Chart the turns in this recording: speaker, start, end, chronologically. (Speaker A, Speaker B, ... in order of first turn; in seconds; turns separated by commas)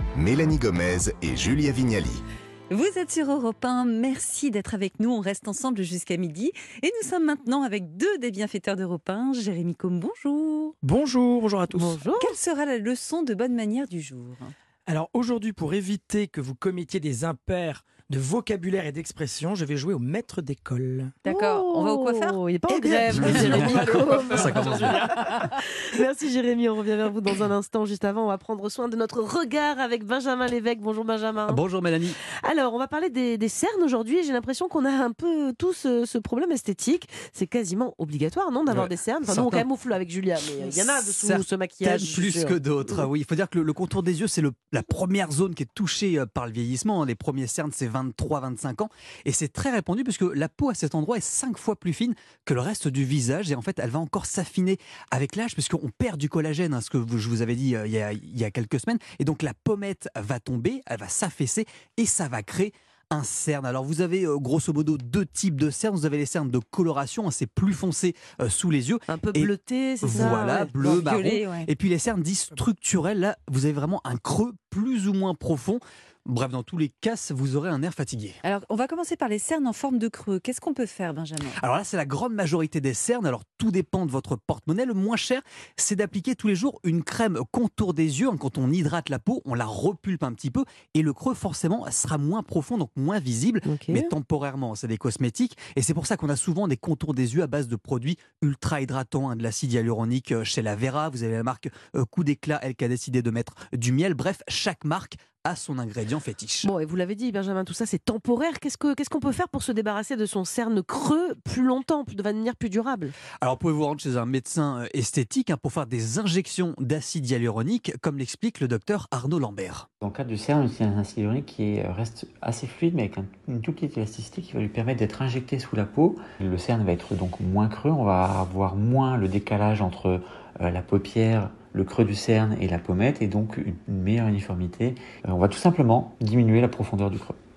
Speaker A: 0.2-2.2, Speaker B: 2.7-10.8, Speaker C: 10.8-12.0, Speaker D: 11.7-12.4, Speaker B: 12.2-14.5, Speaker C: 14.9-21.1, Speaker B: 21.2-22.4, Speaker D: 21.3-31.6, Speaker C: 22.7-25.1, Speaker E: 23.1-25.0, Speaker E: 31.5-32.2, Speaker D: 32.2-43.0, Speaker E: 38.7-39.7, Speaker E: 40.7-78.4, Speaker D: 69.1-70.8, Speaker B: 70.2-71.7, Speaker B: 78.4-81.6, Speaker E: 81.6-106.7, Speaker D: 93.7-94.1, Speaker D: 106.6-113.2, Speaker E: 113.4-119.9, Speaker F: 120.0-137.4